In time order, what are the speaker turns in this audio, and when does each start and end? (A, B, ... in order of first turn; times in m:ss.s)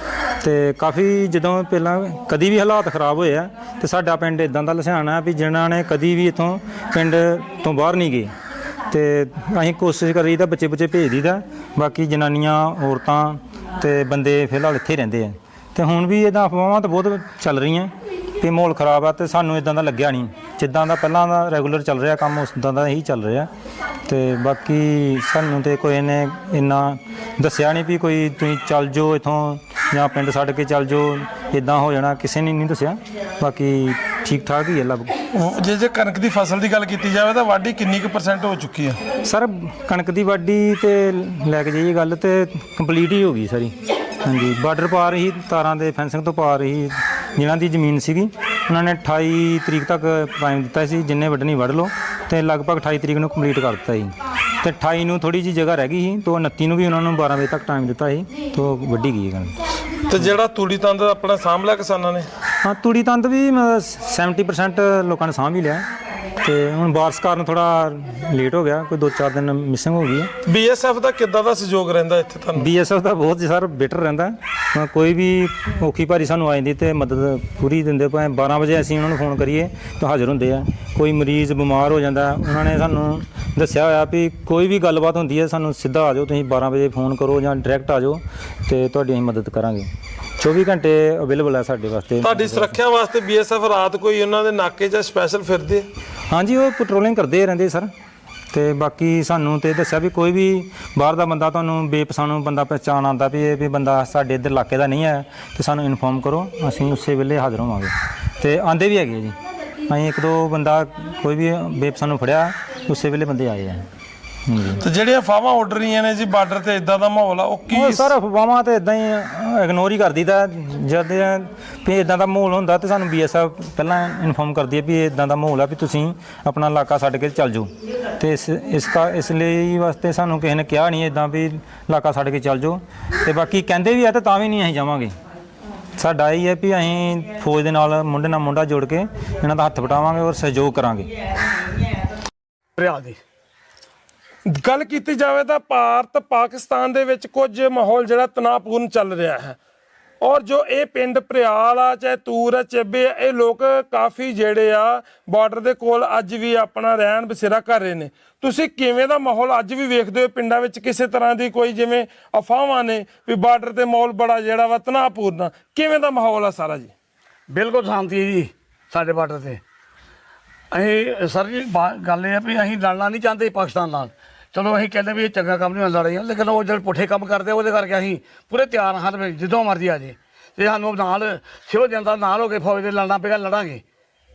0:00.4-0:08.3 A
0:08.9-0:23.5 A
0:24.1-0:35.1 A
0:35.3-0:39.0 B
0:39.2-0:59.5 A
1:00.1-1:02.3 B
1:02.6-1:05.8 A
1:06.4-1:10.3 A
1:10.4-1:12.7 B
1:12.6-1:29.9 A
1:30.4-1:32.8 A
1:32.2-1:35.9 B
1:36.3-1:37.9 A
1:38.5-1:49.4 A
1:49.9-1:53.8 A
1:54.5-1:54.8 A
1:54.8-1:58.1 B
1:57.7-2:15.1 A
2:16.0-2:21.1 A
2:22.8-2:23.2 C
2:24.5-2:29.6 B
2:30.2-2:46.9 B
2:47.5-2:49.6 C
2:50.7-3:03.8 C